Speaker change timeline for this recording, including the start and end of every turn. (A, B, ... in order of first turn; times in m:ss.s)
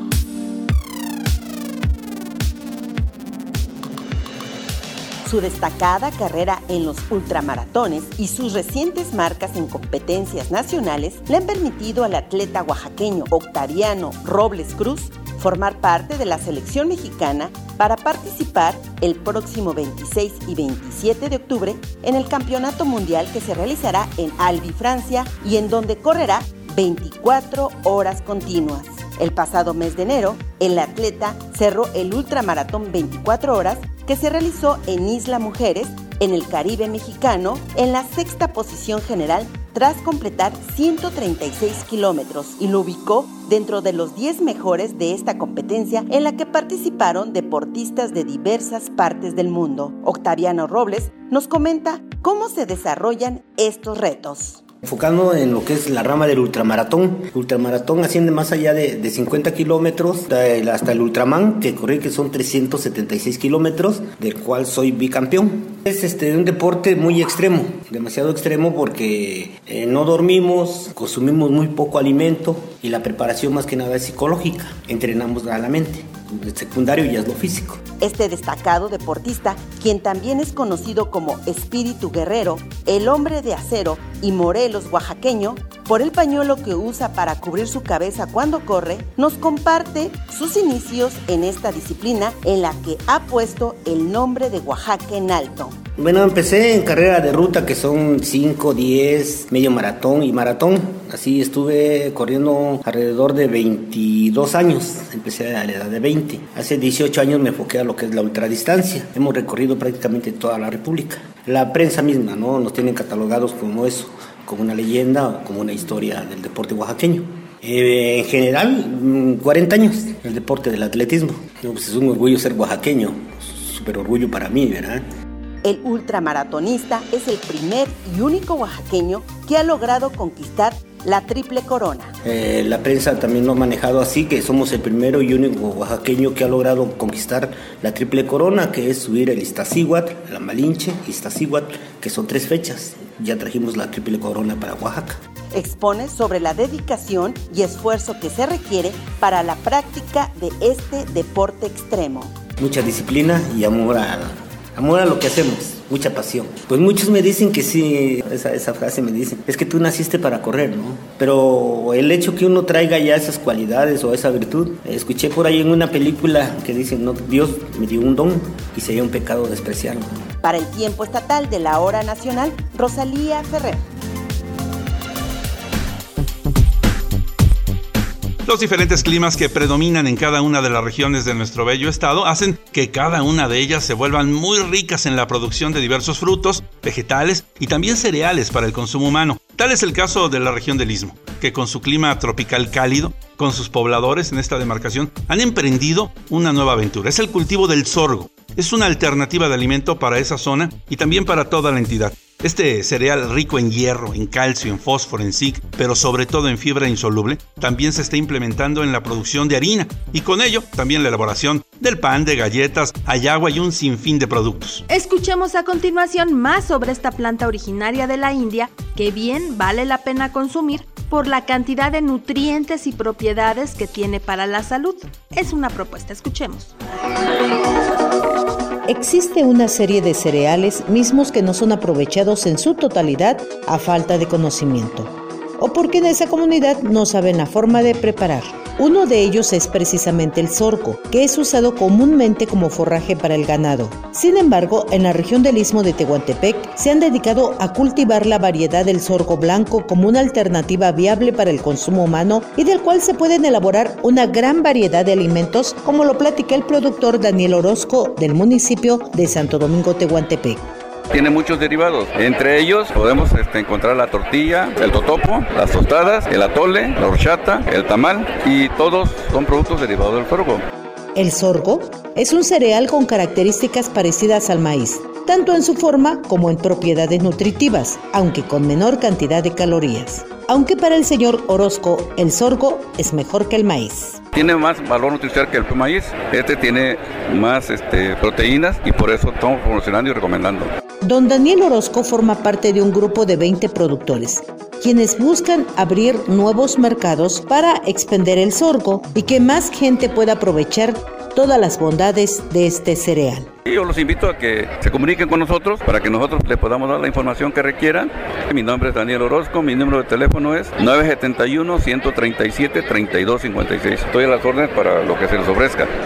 0:05.2-0:54.6 A
0:54.8-1:17.8 B
1:18.0-1:35.8 A
1:36.0-2:05.0 B
2:05.6-2:12.1 A
2:12.2-2:25.2 B
2:25.5-2:32.3 A
2:32.6-2:50.2 B
2:50.4-2:53.8 A
2:58.4-3:34.8 C
3:34.9-3:46.7 D
3:48.8-4:20.6 E
4:21.1-4:30.6 F
4:31.1-4:44.2 E
4:44.3-4:50.7 F
4:51.0-5:03.5 E
5:03.6-5:15.9 F